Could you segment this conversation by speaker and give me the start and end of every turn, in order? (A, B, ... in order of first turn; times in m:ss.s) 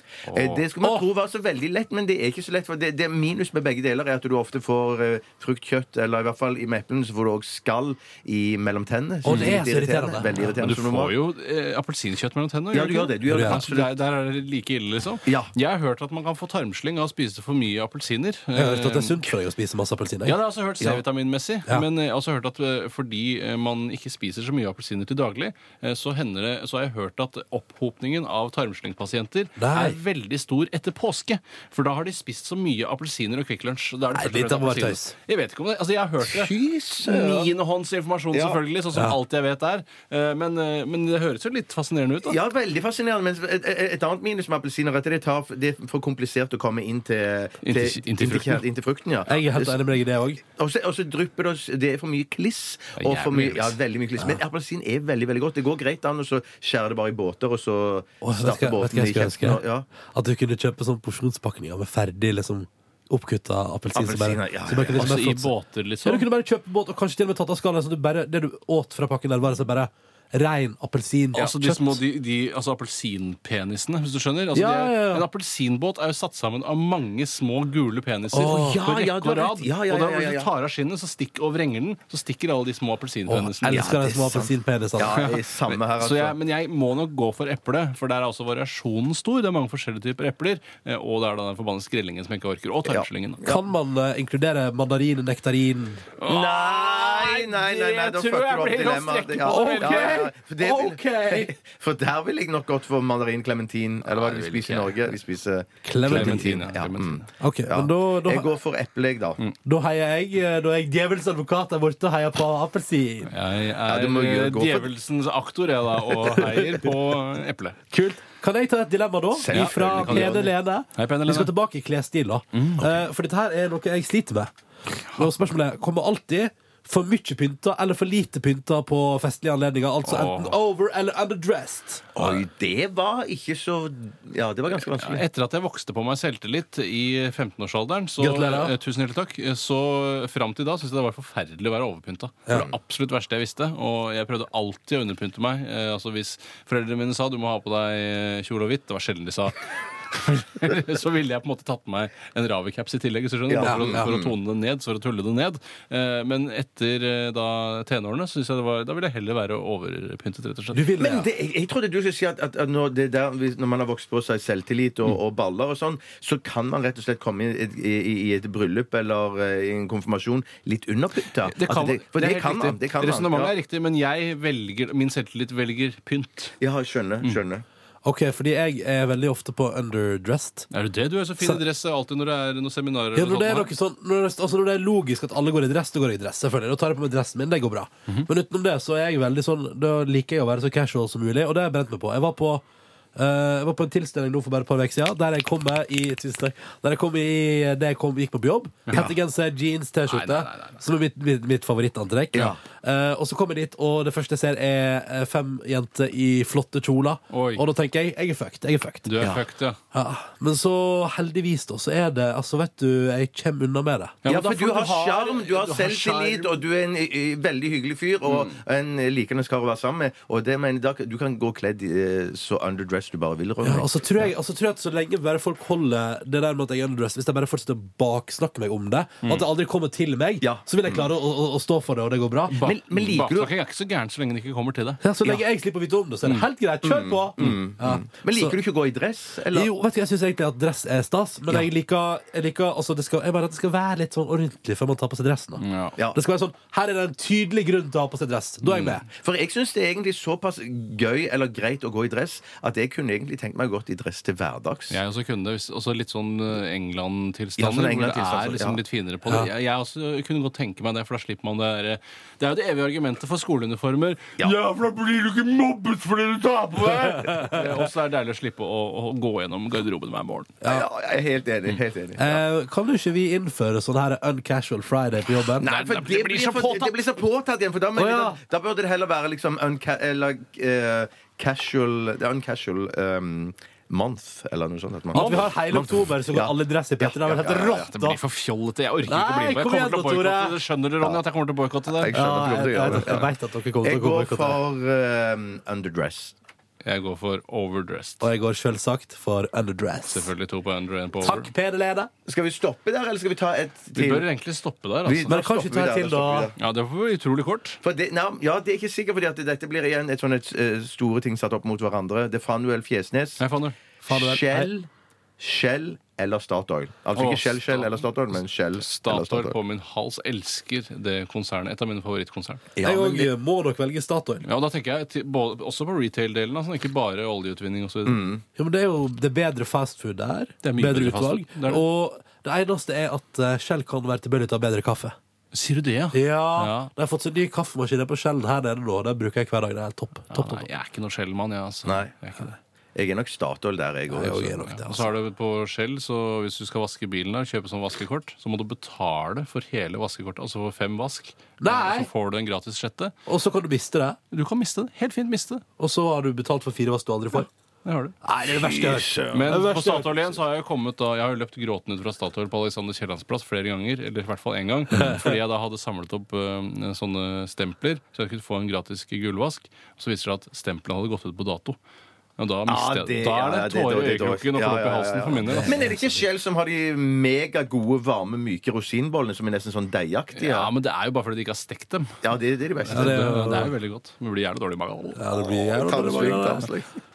0:00.3-0:00.6 A
0:00.3-0:11.1 B
0:09.2-0:10.3 C
0:09.3-0:09.6 A
0:10.3-0:19.2 A
0:12.7-0:13.9 B
0:13.3-0:13.6 C
0:15.2-0:15.5 B
0:18.5-0:21.0 C
0:20.2-0:42.4 A
0:29.6-0:30.0 C
0:34.1-0:35.1 C
0:36.2-0:37.5 B
0:38.3-0:38.6 B
0:42.2-0:49.8 B
0:47.6-0:48.6 A
0:49.3-0:50.4 C
0:50.4-0:59.9 B
0:53.0-0:53.8 A
0:58.2-0:59.6 C
1:00.1-1:05.5 C
1:03.9-1:05.2 B
1:04.9-1:06.2 A
1:06.0-1:12.0 C
1:11.3-1:23.9 A
1:14.5-1:15.2 C
1:18.3-1:18.8 C
1:18.3-1:20.5 B
1:23.3-1:25.2 C
1:23.7-1:26.4 B
1:25.1-1:33.4 A
1:32.8-1:33.6 B
1:33.4-1:36.2 C
1:36.2-1:40.2 A
1:36.3-1:49.4 B
1:39.4-1:41.6 C
1:44.1-1:45.0 A
1:45.8-1:46.6 C
1:46.1-1:47.2 A
1:47.4-1:48.5 C
1:49.6-1:53.3 C
1:53.3-1:57.8 A
1:53.8-1:54.9 B
1:56.1-1:56.9 C
1:57.9-2:12.1 C
1:59.3-2:00.5 B
1:59.5-2:00.4 A
2:01.0-2:01.5 A
2:02.5-2:02.8 A
2:10.0-2:10.6 A
2:12.1-2:15.2 B
2:14.8-2:41.0 A
2:18.2-2:18.7 C
2:33.5-2:34.3 B
2:33.6-2:34.1 C
2:40.7-2:41.3 C
2:41.0-2:53.5 B
2:51.4-2:56.6 A
2:56.6-2:57.6 B
2:58.0-3:00.7 C
3:00.7-3:03.7 A
3:03.1-3:12.6 C
3:13.2-3:29.1 C
3:18.9-3:19.1 A
3:20.1-3:20.8 A
3:22.3-3:22.6 B
3:27.3-3:27.6 A
3:29.0-3:29.8 A
3:29.2-3:29.4 B
3:29.9-3:34.3 C
3:34.2-3:36.6 A
3:34.2-3:44.2 B
3:38.3-3:38.5 A
3:43.6-3:52.7 C
3:50.4-3:51.0 B
3:52.5-3:53.5 B
3:52.5-3:55.0 A
3:55.0-3:58.5 C
3:56.8-3:59.7 B
3:59.5-4:09.0 C
4:05.6-4:06.0 A
4:08.7-4:15.0 B
4:14.9-4:30.6 A
4:17.6-4:18.8 B
4:26.9-4:27.8 C
4:30.6-4:32.4 B
4:32.2-4:35.6 C
4:35.6-4:37.0 A
4:35.6-4:47.9 B
4:37.9-4:38.4 C
4:45.1-4:48.2 C
4:45.1-4:45.5 A
4:47.6-4:52.1 A
4:49.1-4:50.6 C
4:51.9-4:53.3 B
4:52.1-4:54.6 C
4:53.8-4:56.4 B
4:56.8-4:58.2 A
4:58.2-5:00.3 C
5:00.1-5:01.5 A
5:01.2-5:02.1 C
5:02.2-5:04.2 B
5:03.9-5:05.4 A
5:05.0-5:06.5 B
5:05.3-5:06.5 C
5:06.6-5:07.8 A
5:07.8-5:13.4 B
5:13.4-5:13.8 A
5:14.0-5:14.7 C
5:14.0-5:14.9 B
5:15.4-5:19.6 B
5:17.1-5:18.0 A
5:18.8-5:22.7 A
5:22.7-5:23.3 B
5:22.8-5:24.4 C
5:24.4-5:28.2 A
5:28.0-5:28.4 B
5:28.6-5:35.2 C
5:30.6-5:31.8 A
5:35.5-5:36.9 A
5:36.1-5:40.6 C
5:40.3-5:42.6 A
5:43.0-5:44.6 B
5:44.1-5:45.1 C
5:44.6-5:53.1 A
5:51.6-5:52.1 C
5:53.3-5:54.2 C
5:54.3-5:55.6 A
5:55.8-5:57.5 C
5:57.8-5:58.1 A
5:58.2-6:00.2 C
5:58.4-5:59.5 B
5:59.3-6:11.8 A
6:04.9-6:05.3 C
6:12.4-6:15.9 A
6:12.7-6:20.7 B
6:15.4-6:16.2 C
6:20.3-6:22.2 A
6:22.2-6:23.3 B
6:22.8-6:25.2 A
6:22.9-6:23.7 C
6:25.2-6:26.7 C
6:25.4-6:26.9 B